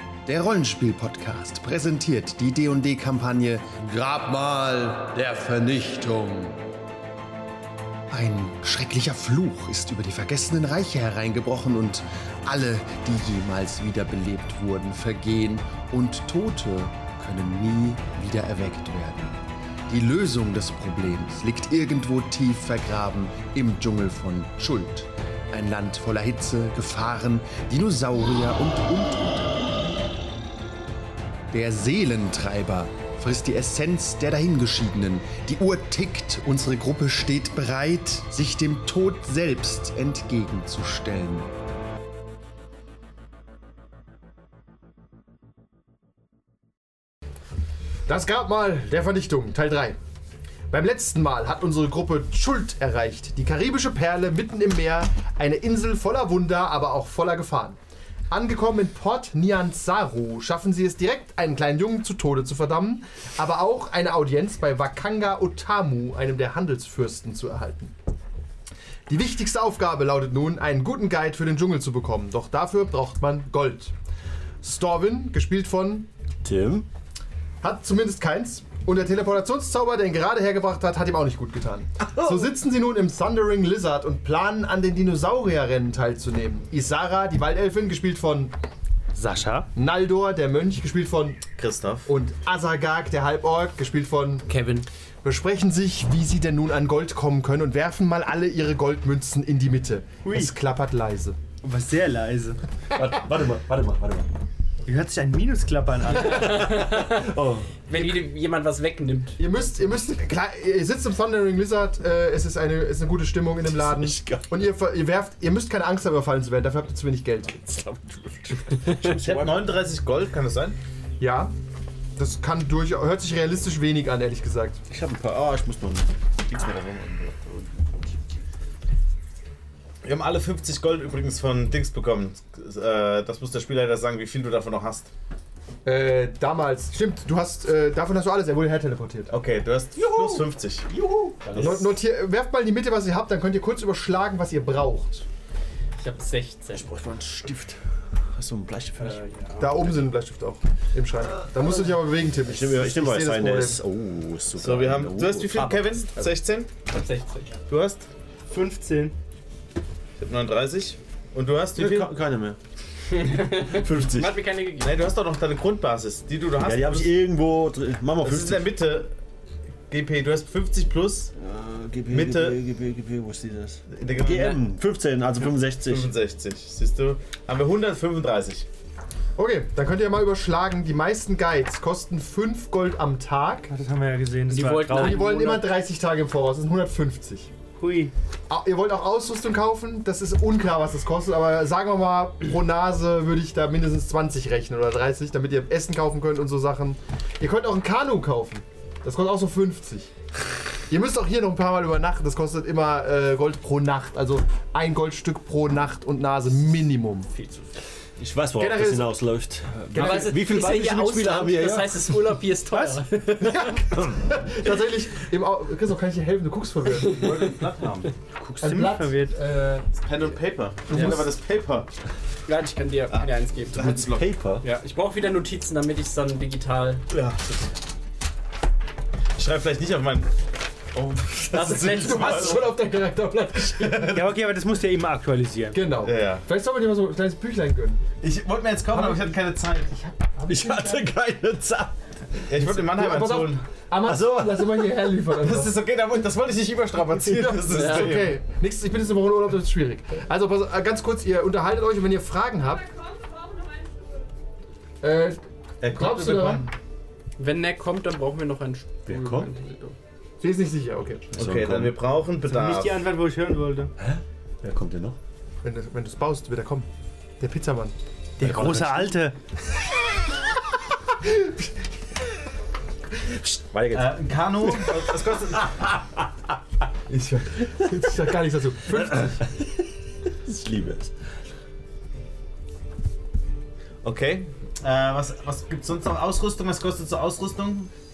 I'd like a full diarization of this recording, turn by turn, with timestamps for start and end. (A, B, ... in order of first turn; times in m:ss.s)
0:00.3-0:00.8 A
0:00.4-0:06.6 B
0:03.8-0:05.9 A
0:08.1-0:09.5 A
0:08.2-0:19.4 B
0:10.1-0:11.0 A
0:19.9-0:29.5 B
0:27.6-0:28.0 A
0:29.0-0:29.2 A
0:31.5-0:39.7 A
0:31.6-0:33.2 B
0:34.3-0:41.5 B
0:48.1-0:50.0 A
0:50.7-0:57.8 A
0:58.3-1:07.9 A
1:09.1-1:13.9 A
1:14.6-1:16.1 A
1:16.4-1:16.9 C
1:17.6-1:28.5 A
1:29.2-1:29.7 D
1:29.8-1:31.4 A
1:31.6-1:32.1 E
1:32.1-1:34.4 A
1:34.5-1:34.9 F
1:35.2-1:41.4 A
1:40.2-1:40.5 D
1:41.6-1:42.6 D
1:42.9-1:44.3 C
1:44.9-1:47.0 D
1:46.2-1:47.3 F
1:46.3-1:47.7 C
1:47.9-1:49.5 F
1:49.4-1:57.6 A
1:53.6-1:54.7 C
1:57.6-1:59.8 C
1:59.1-2:00.8 E
2:01.2-2:01.5 A
2:02.2-2:04.8 A
2:04.9-2:07.7 C
2:10.0-2:15.1 E
2:15.8-2:19.3 A
2:19.3-2:20.9 E
2:20.0-2:21.9 C
2:21.5-2:25.2 A
2:26.0-2:26.9 F
2:26.7-2:27.8 C
2:28.3-2:29.2 C
2:29.0-2:29.9 F
2:29.6-2:33.8 A
2:31.6-2:35.8 C
2:34.6-2:36.7 E
2:35.6-2:36.3 F
2:36.9-2:37.6 F
2:37.7-2:38.1 E
2:38.5-2:39.2 D
2:40.2-2:42.1 E
2:41.8-2:42.6 C
2:43.1-2:44.9 F
2:43.6-2:44.4 C
2:44.8-2:47.1 E
2:46.6-2:48.7 C
2:48.2-2:49.1 E
2:49.9-2:51.3 E
2:51.4-2:56.1 C
2:52.1-2:52.6 E
2:53.9-2:54.6 E
2:55.8-2:58.7 E
2:59.4-3:03.7 A
3:03.7-3:05.6 D
3:04.5-3:05.7 F
3:04.9-3:07.5 A
3:07.8-3:08.1 D
3:08.5-3:20.1 A
3:20.9-3:27.3 A
3:28.2-3:32.2 C
3:28.6-3:29.2 A
3:30.0-3:33.8 F
3:32.7-3:33.5 D
3:33.5-3:37.6 A
3:37.0-3:38.1 E
3:38.4-3:39.4 D
3:38.6-3:39.9 A
3:40.0-3:41.9 E
3:40.9-3:41.3 A
3:42.5-3:44.0 F
3:43.1-3:44.3 E
3:43.7-3:44.6 C
3:44.6-3:47.0 F
3:47.1-3:47.7 E
3:49.4-3:50.3 E
3:50.9-3:52.7 E
3:51.5-3:52.7 F
3:51.5-3:54.2 A
3:53.7-3:54.3 E
3:54.1-3:55.8 D
3:55.7-3:58.0 A
3:56.0-3:56.4 E
3:58.2-4:00.0 E
3:58.9-3:59.4 A
3:59.9-4:01.1 A
4:00.5-4:01.9 C
4:02.4-4:03.6 E
4:02.5-4:05.8 A
4:04.0-4:05.0 C
4:05.3-4:08.4 E
4:07.2-4:12.9 A
4:07.7-4:08.2 F
4:15.0-4:16.6 A
4:15.8-4:16.7 E
4:17.4-4:20.0 F
4:19.1-4:19.5 C
4:20.4-4:21.2 A
4:21.3-4:22.0 C
4:21.3-4:23.1 E
4:22.5-4:23.9 D
4:24.0-4:25.2 C
4:25.6-4:26.9 A
4:27.4-4:28.0 A
4:28.4-4:29.4 D
4:28.4-4:29.1 C
4:31.2-4:31.7 A
4:33.5-4:34.8 C
4:33.9-4:35.9 E
4:37.1-4:39.4 A
4:38.9-4:41.1 C
4:44.0-4:47.9 E